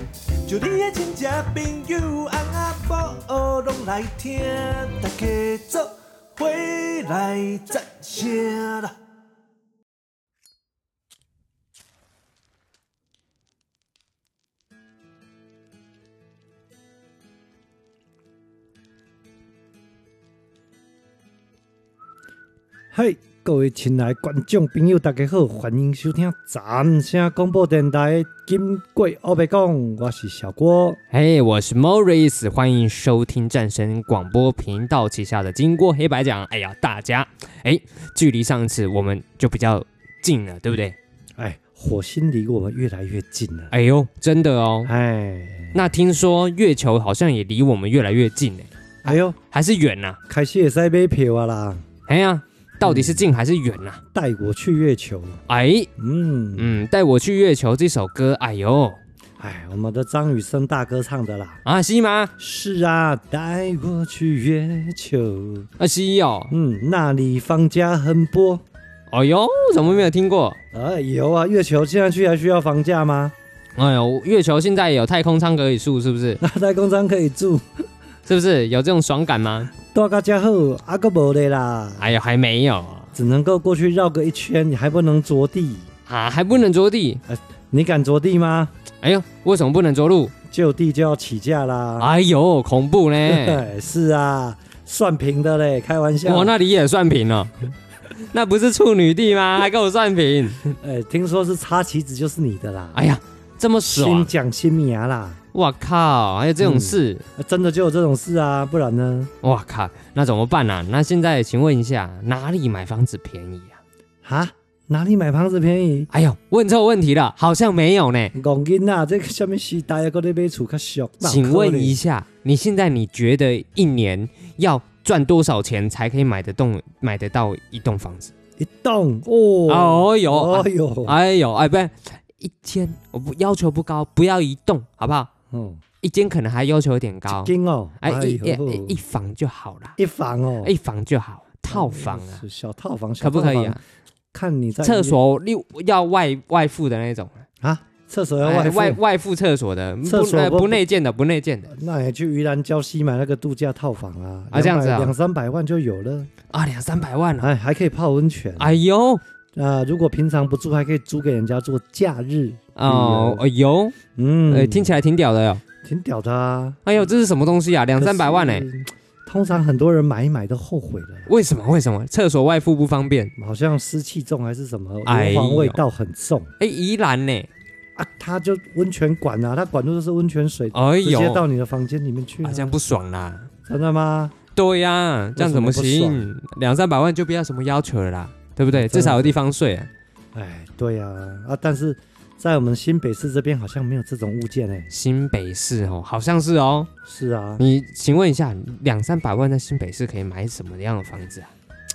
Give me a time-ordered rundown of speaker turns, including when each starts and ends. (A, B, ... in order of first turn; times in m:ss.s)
0:00.4-0:09.0 A
0:22.9-0:31.0 B
0:31.1-0:41.0 C
0:41.4-0:43.7 B
0:43.7-0:44.9 C
0:44.9-0:45.8 B
0:45.7-0:50.2 C
0:49.0-0:49.4 B
0:50.3-0:51.8 B
0:52.1-0:54.0 C
0:52.8-0:53.2 B
0:54.1-0:55.4 B
0:55.5-0:55.9 C
0:56.0-0:56.8 B
0:56.6-0:59.0 C
0:59.4-1:01.6 B
1:01.6-1:02.3 C
1:02.4-1:05.7 B
1:05.8-1:06.6 C
1:06.5-1:08.6 B
1:09.1-1:10.6 C
1:10.7-1:13.3 B
1:13.8-1:16.4 C
1:16.4-1:17.6 B
1:18.3-1:19.7 C
1:19.8-1:22.1 B
1:22.0-1:23.1 C
1:23.1-1:25.9 B
1:26.1-1:27.2 C
1:27.3-1:28.7 B
1:29.0-1:30.3 C
1:30.5-1:32.1 B
1:32.0-1:33.6 C
1:33.2-1:36.5 B
1:36.2-1:37.7 C
1:38.3-1:40.8 C
1:40.8-1:43.0 B
1:43.0-1:44.3 C
1:43.9-1:45.4 B
1:45.5-1:47.2 C
1:46.6-1:49.3 B
1:49.4-1:53.8 C
1:54.2-1:56.1 B
1:56.1-1:58.3 C
1:58.3-2:02.0 B
2:01.2-2:08.3 C
2:08.6-2:11.2 B
2:09.7-2:15.3 C
2:15.5-2:15.8 B
2:16.0-2:20.0 C
2:17.3-2:19.0 B
2:20.0-2:20.7 B
2:20.6-2:22.4 C
2:21.7-2:23.8 B
2:23.2-2:23.8 C
2:24.3-2:25.2 B
2:24.8-2:27.4 C
2:27.6-2:29.0 B
2:28.4-2:31.7 C
2:30.0-2:30.8 B
2:31.7-2:36.3 B
2:34.5-2:35.1 C
2:36.5-2:37.5 C
2:37.4-2:38.8 B
2:38.6-2:39.2 C
2:39.6-2:43.4 B
2:42.8-2:44.0 C
2:44.2-2:44.9 B
2:44.5-2:45.6 C
2:45.8-2:46.8 B
2:46.8-2:48.7 C
2:48.0-2:51.3 B
2:51.3-2:53.3 C
2:53.4-2:56.5 B
2:55.1-2:55.8 C
2:56.6-2:57.5 C
2:58.0-3:02.8 B
3:00.7-3:01.4 C
3:02.4-3:03.5 C
3:03.7-3:04.4 B
3:04.6-3:09.9 C
3:05.4-3:06.3 B
3:08.7-3:09.4 B
3:10.3-3:14.9 B
3:14.9-3:16.9 C
3:17.1-3:17.6 B
3:17.6-3:21.5 C